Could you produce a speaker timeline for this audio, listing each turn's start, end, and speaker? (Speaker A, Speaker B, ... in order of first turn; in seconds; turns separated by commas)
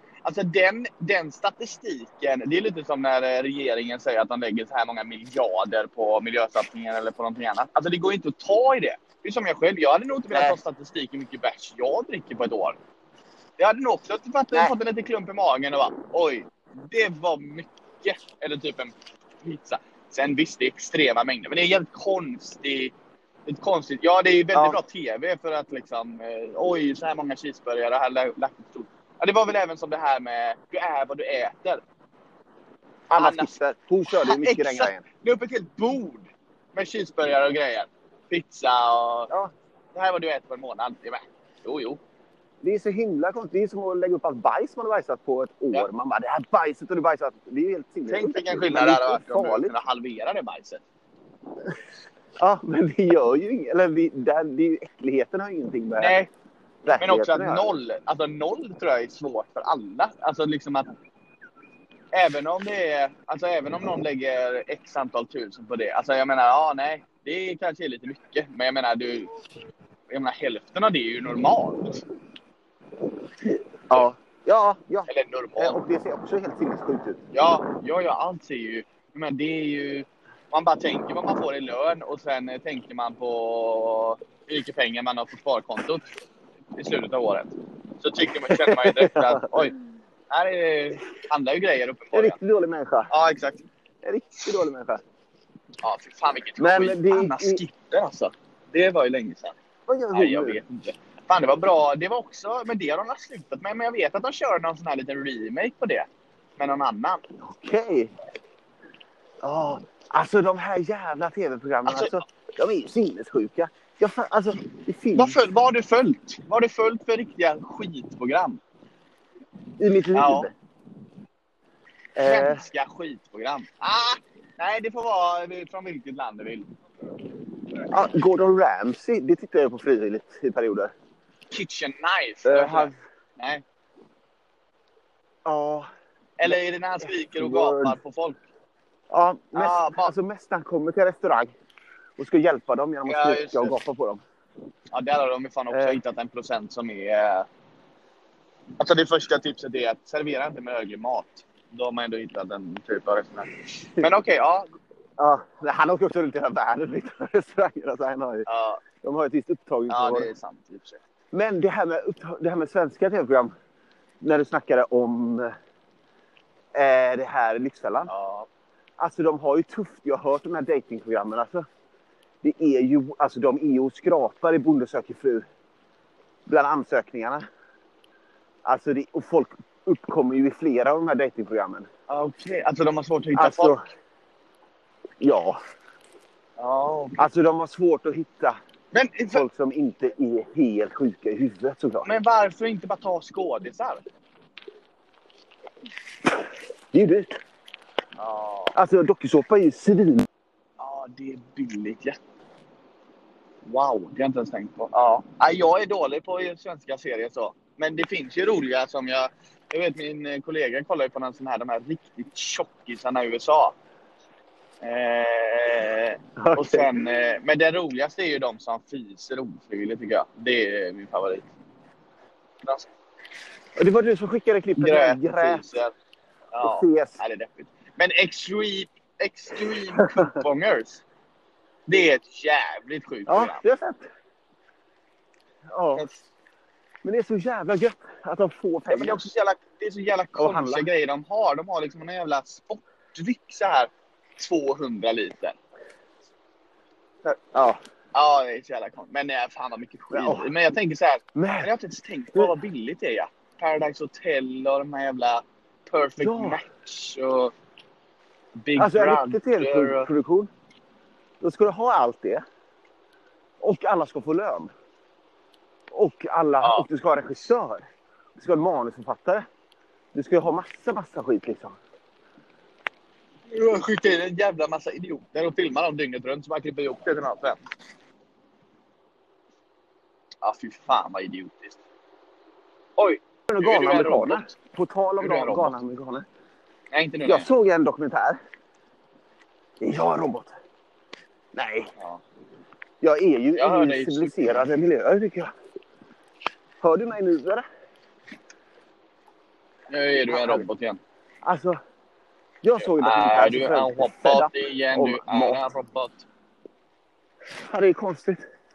Speaker A: 0.2-12.8, Speaker B: 10.3-10.6, Speaker A: 13.6-22.9, Speaker A: 23.5-31.8, Speaker B: 24.5-24.8, Speaker B: 33.1-35.0, Speaker A: 33.1-33.6, Speaker A: 34.1-39.3, Speaker A: 39.9-42.0, Speaker B: 42.6-49.7, Speaker A: 48.1-50.8, Speaker B: 52.4-56.2, Speaker A: 56.0-56.3, Speaker B: 56.9-57.7, Speaker A: 57.0-60.9, Speaker A: 62.1-69.3, Speaker A: 70.1-72.0, Speaker B: 73.9-77.2, Speaker A: 75.1-75.8, Speaker A: 77.3-86.1, Speaker A: 86.8-89.8, Speaker B: 88.5-89.7, Speaker A: 90.3-92.4, Speaker B: 92.1-93.1, Speaker A: 93.1-93.7, Speaker B: 94.0-95.0, Speaker A: 95.8-99.6, Speaker B: 96.6-97.6, Speaker B: 99.9-100.6, Speaker A: 100.1-107.2, Speaker B: 107.4-108.1, Speaker B: 109.4-115.4, Speaker A: 111.9-112.2, Speaker A: 115.1-118.6, Speaker B: 119.8-120.5, Speaker A: 120.1-120.5, Speaker B: 122.2-122.7, Speaker A: 122.2-126.7, Speaker B: 127.9-130.9, Speaker A: 131.5-133.6, Speaker B: 132.4-133.0, Speaker B: 135.4-135.9, Speaker A: 136.4-138.4, Speaker B: 136.4-138.0, Speaker B: 139.1-141.5, Speaker A: 139.6-140.1, Speaker B: 142.2-144.2, Speaker A: 143.1-143.8, Speaker A: 144.9-147.5, Speaker B: 145.7-146.0, Speaker A: 148.8-154.7, Speaker B: 155.2-158.5, Speaker A: 158.5-158.8, Speaker B: 159.0-160.3, Speaker A: 159.9-161.0, Speaker B: 161.3-163.5, Speaker B: 164.2-165.6, Speaker B: 166.8-168.1, Speaker A: 168.1-168.5, Speaker B: 169.0-171.7, Speaker B: 172.4-175.4, Speaker B: 176.5-177.4, Speaker B: 178.7-181.9, Speaker A: 182.1-183.8, Speaker B: 183.3-183.8, Speaker B: 185.2-185.6, Speaker A: 186.6-187.3, Speaker B: 187.2-188.6, Speaker A: 188.9-189.4, Speaker B: 189.3-192.1, Speaker A: 192.0-194.0, Speaker B: 196.9-197.4, Speaker A: 198.2-198.8, Speaker B: 198.8-200.3, Speaker A: 200.8-202.2, Speaker A: 203.6-213.8, Speaker A: 214.8-221.5, Speaker B: 216.4-216.9, Speaker B: 223.8-225.7, Speaker A: 224.8-225.9, Speaker A: 226.5-231.0, Speaker B: 226.6-227.2, Speaker A: 231.9-233.6, Speaker B: 233.3-234.1, Speaker B: 235.7-236.1, Speaker A: 235.9-236.2, Speaker B: 237.0-239.2, Speaker A: 238.9-245.6, Speaker B: 240.4-240.9, Speaker B: 247.5-247.8, Speaker A: 248.1-257.5, Speaker B: 250.1-250.5, Speaker B: 251.4-251.7, Speaker B: 256.2-256.6, Speaker A: 258.6-260.1, Speaker B: 258.8-260.5, Speaker B: 261.4-262.4, Speaker B: 263.6-264.7, Speaker B: 265.9-269.5, Speaker A: 266.6-266.9, Speaker B: 270.1-271.8, Speaker A: 273.5-277.6, Speaker A: 280.4-281.8, Speaker A: 283.0-284.5, Speaker B: 283.5-286.2, Speaker A: 285.2-285.8, Speaker A: 286.9-287.5, Speaker B: 287.2-288.4, Speaker B: 289.8-290.5, Speaker B: 291.5-291.9, Speaker B: 293.0-295.5, Speaker A: 293.6-294.7, Speaker B: 296.8-297.6, Speaker A: 299.9-301.0, Speaker B: 300.3-300.7, Speaker B: 301.4-301.8, Speaker B: 302.6-305.6, Speaker A: 302.8-306.3, Speaker B: 307.6-308.4